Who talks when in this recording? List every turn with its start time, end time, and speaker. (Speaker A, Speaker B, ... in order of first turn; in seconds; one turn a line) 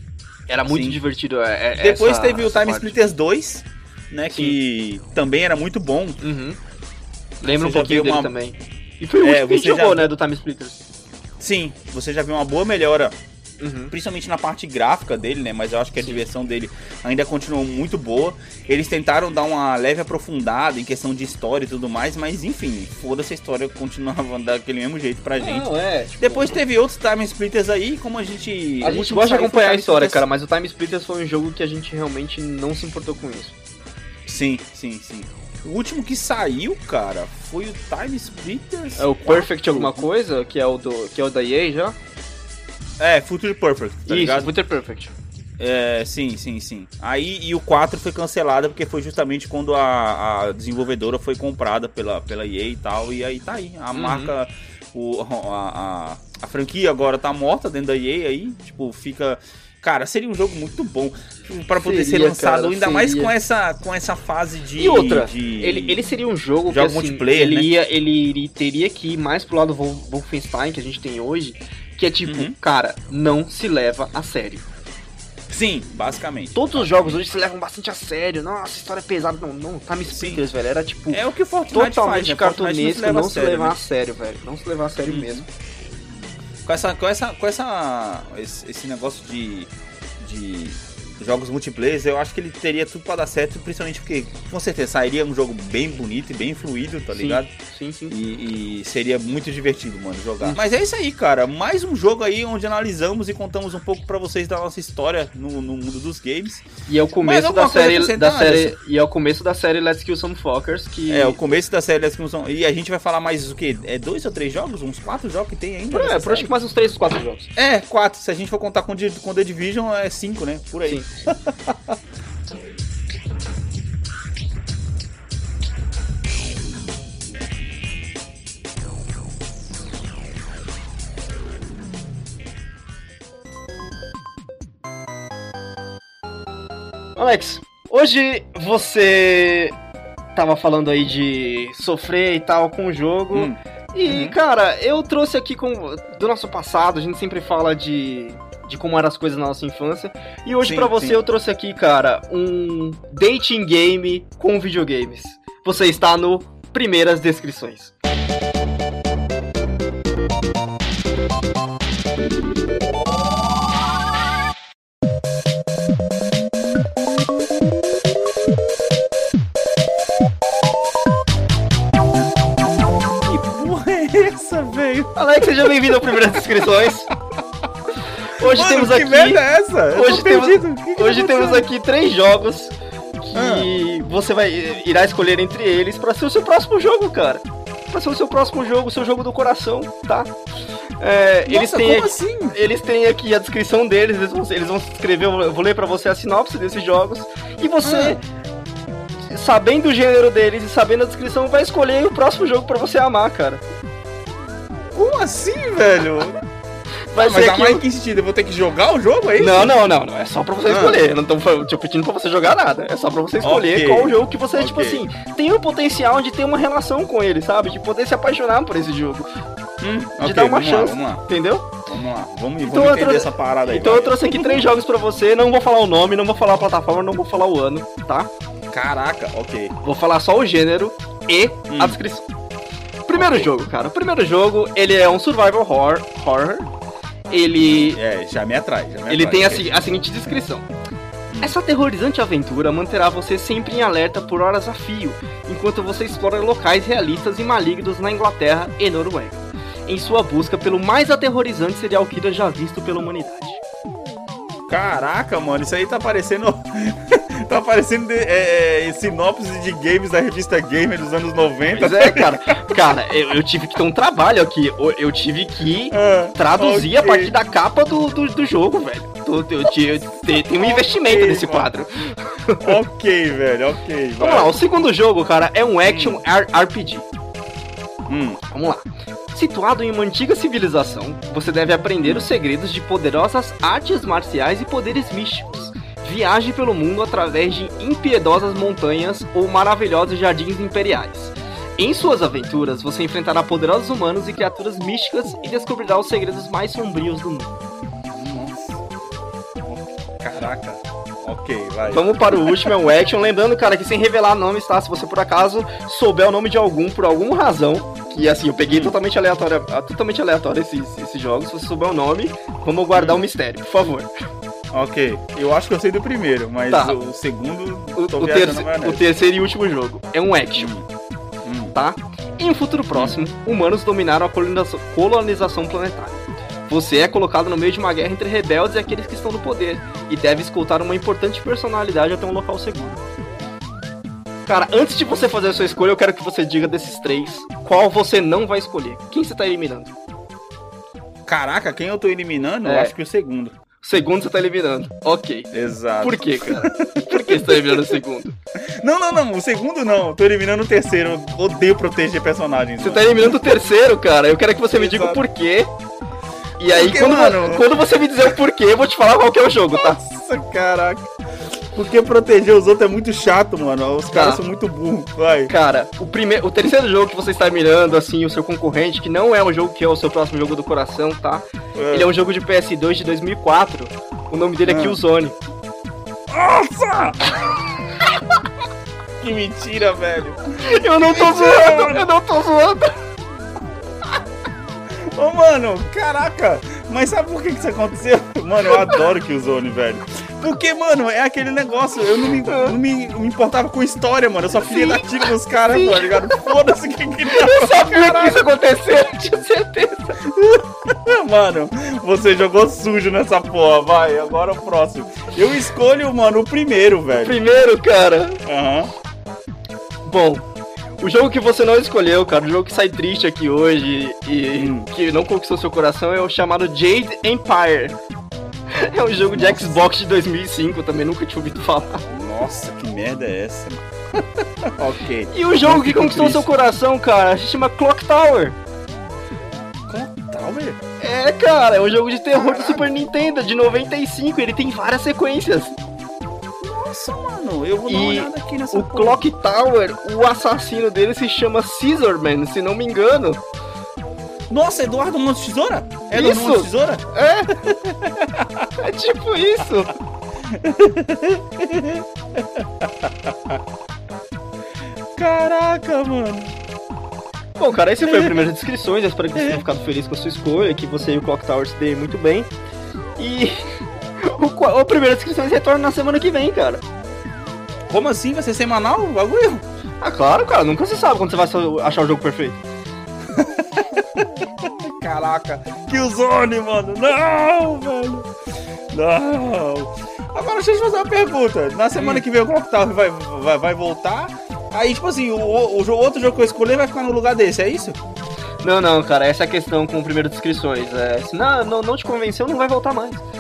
Speaker A: 0.5-3.0
Speaker B: 0.7-1.0
Speaker B: 1.7-6.2
Speaker A: 6.2-6.6
Speaker A: 7.4-10.8
Speaker B: 7.6-8.3
Speaker B: 9.2-10.1
Speaker B: 11.4-13.2
Speaker A: 13.6-13.9
Speaker B: 13.9-25.7
Speaker A: 25.4-26.6
Speaker B: 26.2-30.2
Speaker A: 28.8-33.5
Speaker B: 34.3-40.1
Speaker A: 39.0-42.0
Speaker B: 43.0-44.5
Speaker A: 44.1-45.1
Speaker B: 45.6-66.0
Speaker A: 53.9-54.3
Speaker A: 61.8-63.3
Speaker A: 64.8-74.6
Speaker B: 66.7-67.7
Speaker B: 72.3-72.5
Speaker B: 75.5-77.2
Speaker A: 76.5-85.4
Speaker B: 80.1-80.4
Speaker B: 81.1-83.7
Speaker B: 85.1-85.5
Speaker B: 86.6-97.5
Speaker A: 97.1-98.1
Speaker B: 98.1-106.7
Speaker A: 106.9-111.4
Speaker B: 107.2-108.7
Speaker B: 111.1-116.5
Speaker A: 115.9-117.5
Speaker B: 117.6-122.0
Speaker A: 137.2-139.8
Speaker A: 140.4-157.9
Speaker B: 143.3-144.4
Speaker B: 150.7-151.2
Speaker B: 173.2-175.1
Speaker A: 175.2-177.1
Speaker A: 178.3-179.4
Speaker B: 178.4-181.7
Speaker A: 179.9-190.3
Speaker B: 183.3-183.7
Speaker A: 191.0-198.2
Speaker B: 191.4-192.6
Speaker B: 197.8-198.2
Speaker A: 199.2-203.6
Speaker B: 204.9-206.4
Speaker A: 207.1-207.8
Speaker B: 207.1-209.7
Speaker A: 209.4-219.3
Speaker B: 210.7-211.0
Speaker B: 213.4-215.1
Speaker B: 219.8-221.2
Speaker A: 220.2-221.7
Speaker B: 221.8-224.6
Speaker A: 222.6-228.3
Speaker B: 228.7-229.7
Speaker A: 229.8-232.3
Speaker B: 231.7-232.0
Speaker A: 233.1-236.7
Speaker B: 233.1-233.5
Speaker A: 237.3-238.0
Speaker B: 237.7-239.8
Speaker A: 239.1-240.7
Speaker B: 241.3-241.6
Speaker A: 241.4-253.6
Speaker B: 254.7-262.7
Speaker A: 261.7-272.8
Speaker B: 265.9-267.3
Speaker B: 270.3-271.7
Speaker B: 272.6-274.6
Speaker A: 274.2-277.1
Speaker B: 275.9-276.2
Speaker B: 278.1-278.4
Speaker A: 278.5-297.5
Speaker B: 282.0-282.3
Speaker B: 298.1-298.9
Speaker B: 299.6-302.7
Speaker A: 301.9-314.1
Speaker B: 308.7-308.9
Speaker B: 312.9-313.2
Speaker B: 314.7-319.0
Speaker A: 316.7-316.9
Speaker A: 317.9-320.7
Speaker B: 320.6-320.9
Speaker B: 321.4-321.7
Speaker A: 321.7-333.0
Speaker A: 334.4-339.9
Speaker B: 341.3-343.5
Speaker A: 342.6-342.9
Speaker A: 343.8-348.4
Speaker B: 345.5-348.0
Speaker B: 348.8-353.6
Speaker A: 352.8-355.7
Speaker B: 354.7-355.2
Speaker A: 356.6-360.0
Speaker B: 356.7-357.7
Speaker B: 359.7-361.1
Speaker B: 361.7-365.5
Speaker A: 364.1-364.4
Speaker A: 365.5-375.4
Speaker B: 371.7-372.1
Speaker B: 374.6-375.0
Speaker B: 376.3-377.4
Speaker B: 379.2-382.1
Speaker A: 380.6-382.9
Speaker B: 384.9-398.4
Speaker A: 388.7-389.0
Speaker A: 392.2-392.8
Speaker A: 394.5-396.5
Speaker A: 397.3-400.2
Speaker B: 400.2-407.4
Speaker A: 407.1-408.4
Speaker B: 408.4-408.9
Speaker A: 410.1-410.4
Speaker A: 411.0-418.0
Speaker B: 414.6-414.9
Speaker A: 418.7-422.0
Speaker B: 419.3-419.9
Speaker B: 422.1-426.5
Speaker A: 425.3-428.6
Speaker B: 429.9-430.8
Speaker A: 431.0-435.8
Speaker B: 432.3-432.9
Speaker B: 436.6-439.2
Speaker A: 437.9-443.4
Speaker B: 444.5-448.7
Speaker A: 446.1-447.6
Speaker A: 448.8-449.9
Speaker B: 450.4-453.6
Speaker B: 455.2-456.6
Speaker A: 457.6-462.5
Speaker B: 458.1-458.4
Speaker B: 459.4-459.6
Speaker A: 463.2-463.6
Speaker A: 464.2-466.8
Speaker B: 467.9-469.6
Speaker A: 470.0-472.6
Speaker B: 473.3-478.3
Speaker B: 478.9-488.0
Speaker A: 481.9-482.2
Speaker A: 488.6-493.2